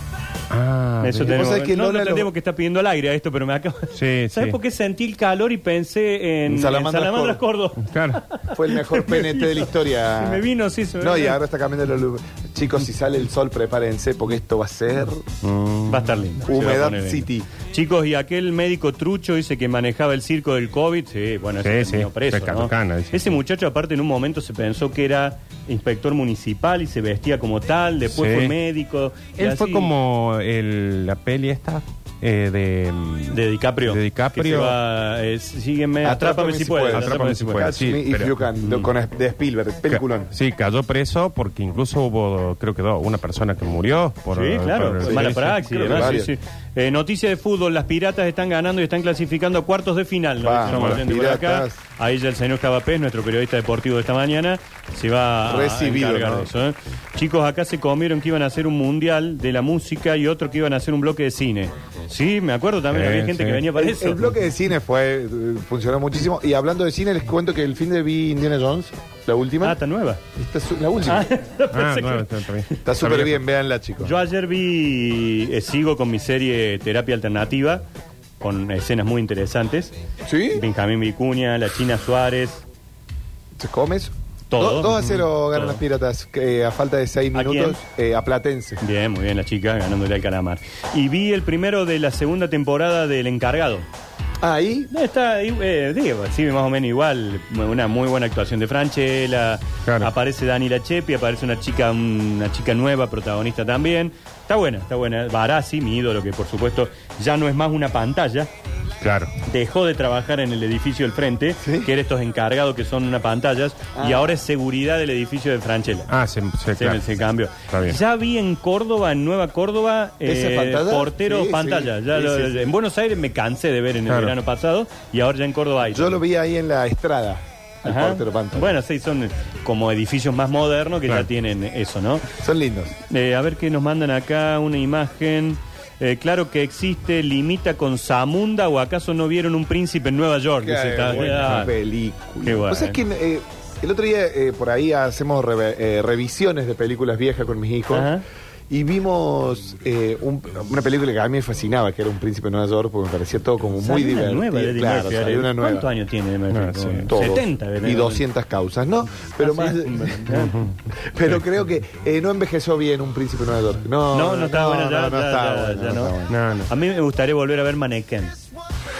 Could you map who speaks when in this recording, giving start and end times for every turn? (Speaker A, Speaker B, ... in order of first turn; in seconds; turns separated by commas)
Speaker A: 0.5-1.6, Speaker B: 1.0-11.4, Speaker C: 1.3-2.3, Speaker A: 3.9-4.6, Speaker C: 6.5-7.4, Speaker A: 7.8-8.2, Speaker C: 8.5-10.4, Speaker C: 11.0-15.3, Speaker A: 15.4-16.1, Speaker B: 15.9-29.9, Speaker C: 16.4-17.5, Speaker A: 21.6-23.4, Speaker A: 28.1-28.6, Speaker A: 29.4-34.8, Speaker B: 33.3-37.7, Speaker C: 36.0-40.3, Speaker A: 36.9-38.4, Speaker B: 38.6-38.9, Speaker A: 39.9-46.2, Speaker B: 44.3-64.2, Speaker C: 45.0-46.3, Speaker C: 50.4-51.8, Speaker A: 50.7-51.1, Speaker C: 55.4-56.5, Speaker A: 62.9-63.7, Speaker C: 63.7-69.8, Speaker B: 69.6-70.2, Speaker C: 70.3-71.3, Speaker B: 71.0-73.4, Speaker A: 71.7-73.3, Speaker C: 72.8-74.2, Speaker B: 74.0-77.8, Speaker B: 78.4-79.9, Speaker C: 80.2-80.6, Speaker B: 80.5-82.6, Speaker C: 83.6-88.8, Speaker B: 84.5-85.8, Speaker B: 87.3-87.8, Speaker B: 88.8-93.9, Speaker C: 94.4-94.9, Speaker B: 94.9-108.5, Speaker A: 109.0-109.3, Speaker B: 109.4-116.1, Speaker C: 111.6-111.9, Speaker C: 113.9-114.3, Speaker A: 116.1-117.0, Speaker B: 116.8-126.2, Speaker A: 117.7-118.0, Speaker C: 120.2-122.6, Speaker A: 124.1-124.3, Speaker C: 125.9-128.8, Speaker B: 127.8-132.3, Speaker C: 132.4-132.9, Speaker B: 133.1-141.7, Speaker C: 140.6-148.2, Speaker B: 142.4-143.0, Speaker B: 147.9-148.2, Speaker C: 148.7-155.9, Speaker B: 153.8-158.2, Speaker A: 156.5-157.1, Speaker C: 157.1-166.4, Speaker B: 159.4-160.7, Speaker A: 160.3-160.7, Speaker B: 164.1-166.1, Speaker A: 166.3-166.7, Speaker B: 166.7-168.4